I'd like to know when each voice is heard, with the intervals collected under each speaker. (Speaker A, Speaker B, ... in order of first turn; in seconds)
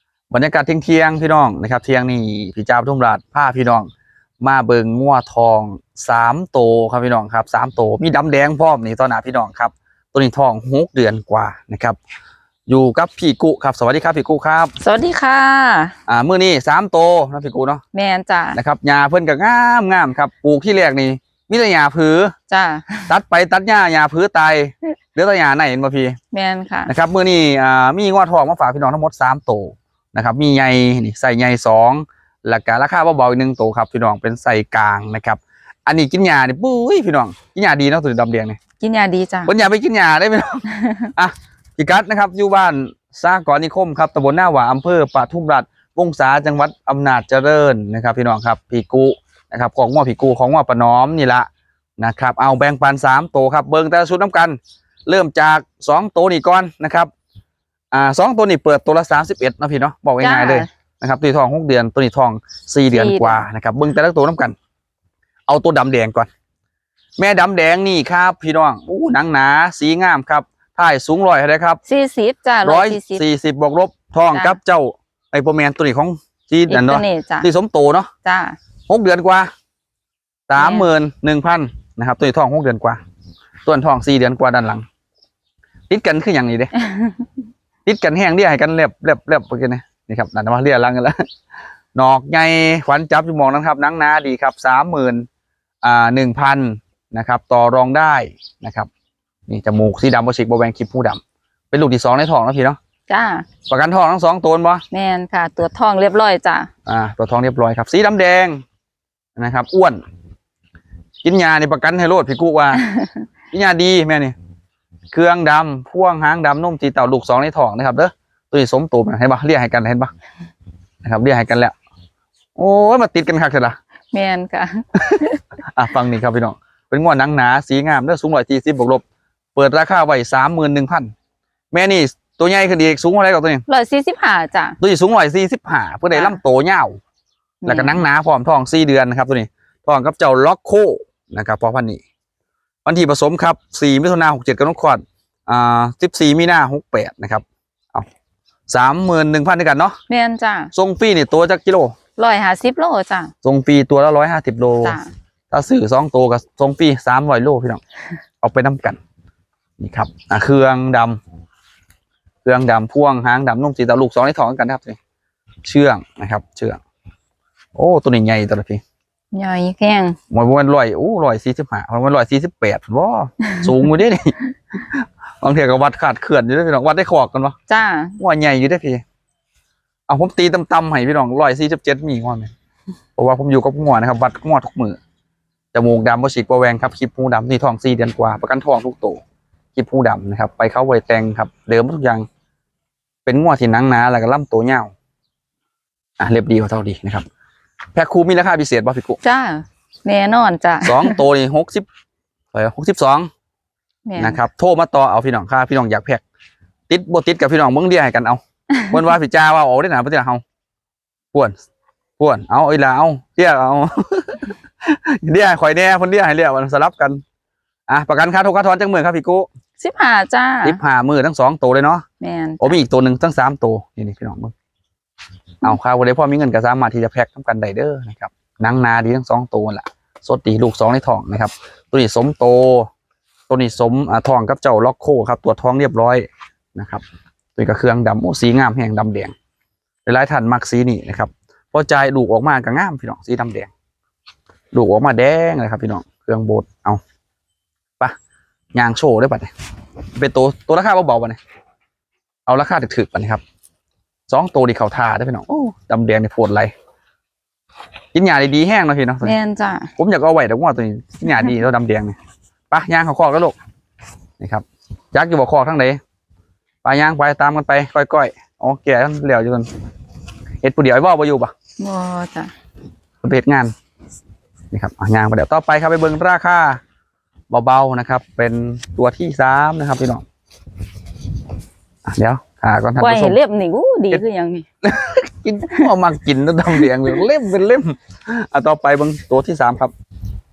Speaker A: 0.3-3.9, 4.4-12.0, 12.7-14.7, 16.1-17.8, 18.5-22.3, 23.1-26.2, 26.9-38.6, 39.5-57.1, 57.9-64.5, 65.5-66.3, 67.2-71.8, 72.7-78.1, 78.9-79.5, 80.5-83.0, 83.7-84.9, 85.9-86.7, 87.9-91.2, 92.0-95.3, 95.8-98.9, 99.5-101.2, 101.7-102.8, 103.7-104.8, 106.9-108.6, 109.4-110.0, 111.2-112.8, 113.5-114.3, 115.1-120.1, 121.0-121.7, 122.6-123.8, 125.7-129.0, 129.6-131.1, 131.7-133.6, 134.8-137.0, 137.7-142.0, 142.8-148.1, 148.7-150.0, 150.7-151.9, 153.4-155.0, 155.5-157.8, 158.4-159.0, 159.8-161.2, 162.4-165.0, 165.7-166.8, 167.8-168.8, 170.3-177.6, 178.2-179.0, 180.1-182.5, 183.2-185.0, 185.7-189.2, 189.8-192.3, 193.2-194.9, 196.2-197.3, 197.9-199.2, 200.8-201.9, 202.5-203.3, 204.2-206.2, 206.9-210.4, 212.2-217.2, 217.9-219.5, 220.6-222.1, 222.6-224.5, 225.6-232.9, 233.5-237.0, 237.6-239.3, 240.1-243.7, 244.7-247.0, 248.7-249.5, 250.2-251.4, 252.5-253.4, 254.3-256.7, 258.1-259.4, 260.0-262.1, 262.7-263.6, 264.4-266.0, 266.8-269.7, 270.6-271.5, 273.2-273.7, 274.7-276.8, 277.5-280.2, 282.1-283.4, 284.8-289.9
Speaker B: 14.8-15.9, 17.9-18.6, 22.5-23.1, 26.3-26.9, 38.8-39.5, 40.7-41.1, 60.2-60.7, 62.9-63.4, 71.9-73.2, 74.3-74.6, 76.7-77.5, 78.2-78.6, 80.6-80.9, 86.8-87.2, 103.1-103.5, 104.9-106.7, 124.1-125.4, 133.7-134.8, 136.1-136.4, 137.6-138.0, 150.1-150.7, 152.2-153.3, 154.8-155.1, 169.3-170.2, 177.7-178.2, 199.2-201.2, 204.1-204.4, 219.8-220.8, 222.2-222.8, 259.2-259.9, 271.8-272.5, 283.0-284.7